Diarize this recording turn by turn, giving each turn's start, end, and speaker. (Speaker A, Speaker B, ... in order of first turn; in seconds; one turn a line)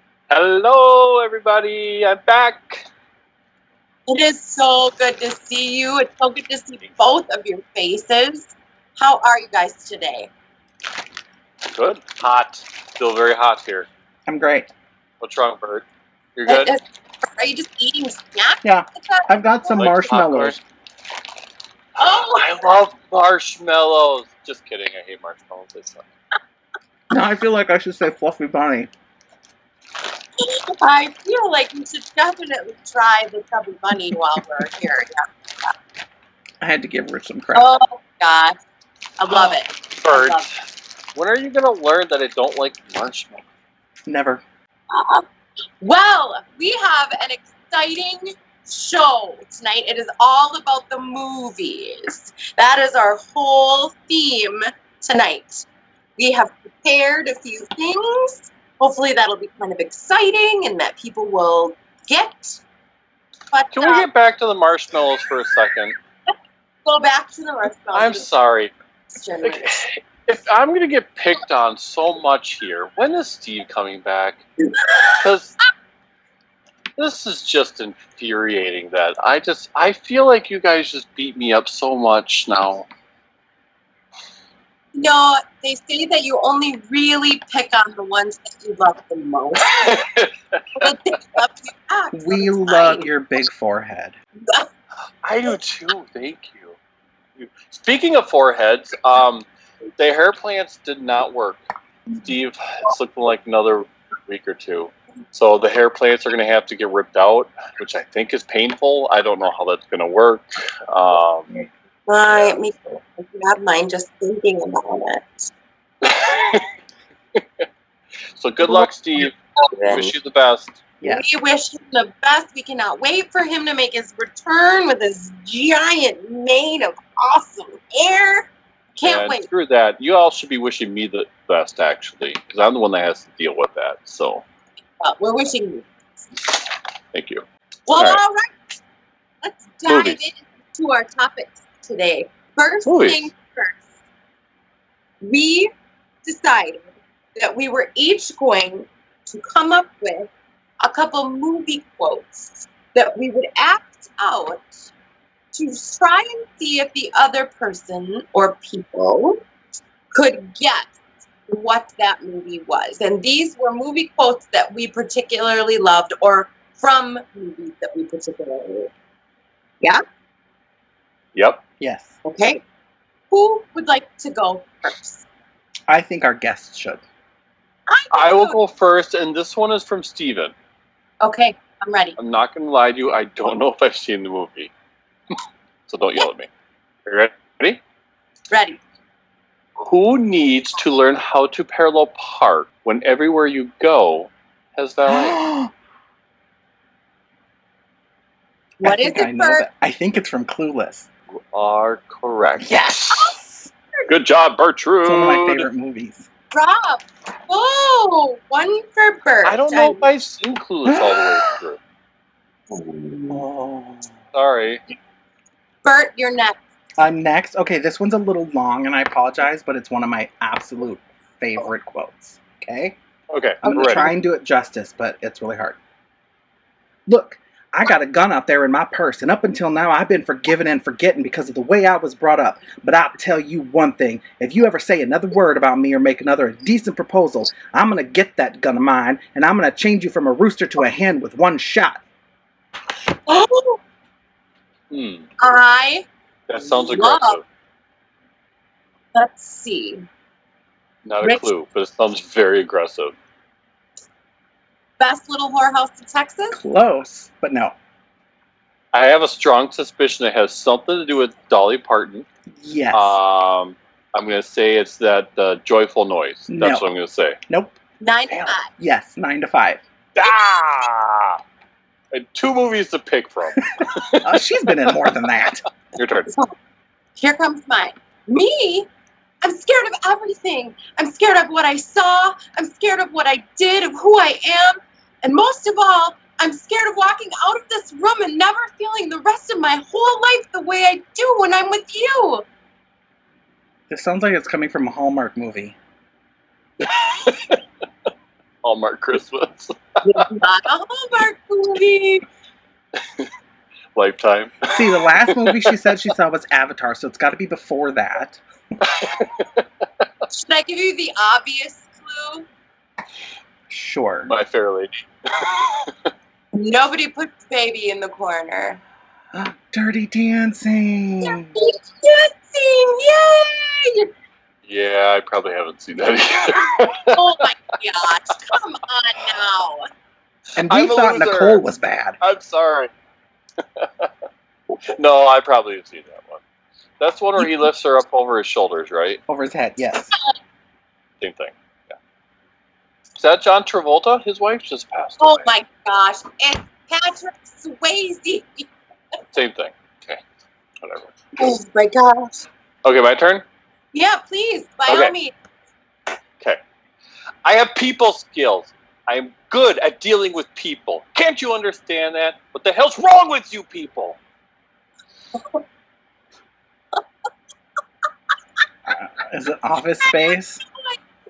Speaker A: 0.3-2.9
Speaker B: 4.1-10.3
Speaker A: 11.7-13.9
Speaker C: 14.3-14.7
Speaker A: 15.2-15.8
Speaker A: 16.4-16.7
Speaker B: 16.5-19.9
Speaker C: 18.6-20.6
Speaker A: 19.8-20.6
Speaker B: 22.0-22.6
Speaker A: 22.0-26.1
Speaker C: 27.1-28.9
Speaker B: 30.4-35.7
Speaker C: 36.6-37.8
Speaker B: 37.5-38.5
Speaker B: 39.2-40.5
Speaker A: 39.3-40.5
Speaker A: 41.1-43.5
Speaker C: 44.1-44.4
Speaker B: 44.9-45.2
Speaker B: 45.8-55.7
Speaker B: 56.2-62.6
Speaker B: 63.5-64.1
Speaker A: 63.7-66.0
Speaker B: 66.8-68.3
Speaker A: 67.9-68.7
Speaker B: 69.1-69.8
Speaker A: 69.4-74.4
Speaker B: 74.6-75.2
Speaker A: 75.2-75.6
Speaker A: 77.0-82.9
Speaker B: 84.9-89.8
Speaker A: 89.7-90.9
Speaker B: 90.8-93.1
Speaker C: 92.1-94.2
Speaker A: 95.2-96.8
Speaker A: 97.4-99.5
Speaker A: 100.0-101.6
Speaker A: 102.2-111.5
Speaker B: 112.1-115.5
Speaker A: 112.3-112.6
Speaker A: 116.0-116.7
Speaker A: 117.3-117.7
Speaker A: 118.4-120.8
Speaker B: 119.6-120.1
Speaker B: 121.0-129.5
Speaker A: 129.0-134.4
Speaker B: 135.0-135.9
Speaker A: 137.1-138.2
Speaker B: 137.9-138.5
Speaker B: 139.4-143.8
Speaker A: 139.9-140.2
Speaker A: 142.8-143.3
Speaker B: 145.2-145.7
Speaker B: 146.2-146.8
Speaker B: 147.4-150.3
Speaker B: 150.8-154.9
Speaker B: 155.5-159.4
Speaker B: 160.1-160.9
Speaker B: 161.5-168.9
Speaker A: 171.3-171.6
Speaker C: 171.8-172.2
Speaker B: 172.2-172.6
Speaker B: 173.3-175.2
Speaker C: 175.9-177.0
Speaker B: 177.9-178.6
Speaker A: 178.1-180.5
Speaker B: 181.2-182.2
Speaker A: 182.2-184.7
Speaker A: 185.9-186.5
Speaker A: 187.1-187.8
Speaker B: 188.5-188.8
Speaker A: 189.8-195.4
Speaker C: 195.1-195.7
Speaker C: 198.8-201.1
Speaker B: 198.8-199.7
Speaker A: 201.4-202.8
Speaker C: 202.6-203.7
Speaker B: 203.1-203.4
Speaker A: 204.1-205.7
Speaker C: 205.0-206.3
Speaker B: 206.5-210.1
Speaker A: 209.4-211.8
Speaker C: 210.9-211.4
Speaker B: 212.7-213.4
Speaker C: 213.3-214.2
Speaker A: 214.3-214.8
Speaker B: 215.8-216.6
Speaker C: 217.0-223.0
Speaker A: 223.3-224.1
Speaker C: 223.6-225.8
Speaker C: 227.1-242.0
Speaker B: 243.3-243.8
Speaker A: 244.9-245.3
Speaker B: 245.4-247.4
Speaker A: 246.5-247.4
Speaker B: 249.1-250.0
Speaker A: 251.1-253.1
Speaker B: 255.0-256.6
Speaker C: 256.5-257.7
Speaker A: 258.9-262.2
Speaker C: 262.6-263.2
Speaker A: 262.9-267.4
Speaker C: 266.5-266.9
Speaker C: 267.5-267.8
Speaker B: 268.0-268.7
Speaker C: 268.6-269.8
Speaker A: 270.1-271.4
Speaker A: 272.1-274.9
Speaker C: 273.8-275.6
Speaker A: 275.9-276.3
Speaker B: 276.3-276.5
Speaker B: 277.2-278.9
Speaker B: 279.4-292.4
Speaker C: 293.9-295.8
Speaker A: 296.8-297.6
Speaker A: 298.6-300.2
Speaker B: 300.0-302.2
Speaker A: 303.0-303.3
Speaker A: 303.9-305.8
Speaker C: 304.7-308.4
Speaker A: 308.9-309.6
Speaker B: 310.3-312.5
Speaker C: 313.7-314.4
Speaker A: 314.3-316.1
Speaker B: 316.5-318.8
Speaker C: 319.3-321.6
Speaker B: 321.2-324.1
Speaker A: 324.7-327.2
Speaker B: 327.1-329.9
Speaker C: 330.6-332.2
Speaker A: 330.6-331.6
Speaker A: 332.2-332.9
Speaker A: 333.8-334.1
Speaker A: 334.9-336.4
Speaker A: 337.0-339.2
Speaker C: 339.3-340.1
Speaker A: 341.2-341.9
Speaker A: 343.2-345.5
Speaker B: 345.2-348.7
Speaker A: 349.3-350.2
Speaker A: 350.8-351.1
Speaker B: 351.4-352.4
Speaker A: 352.8-353.4
Speaker B: 353.9-355.3
Speaker A: 354.9-355.1
Speaker A: 357.4-364.2
Speaker B: 365.4-365.6
Speaker C: 368.9-370.6
Speaker B: 370.1-371.0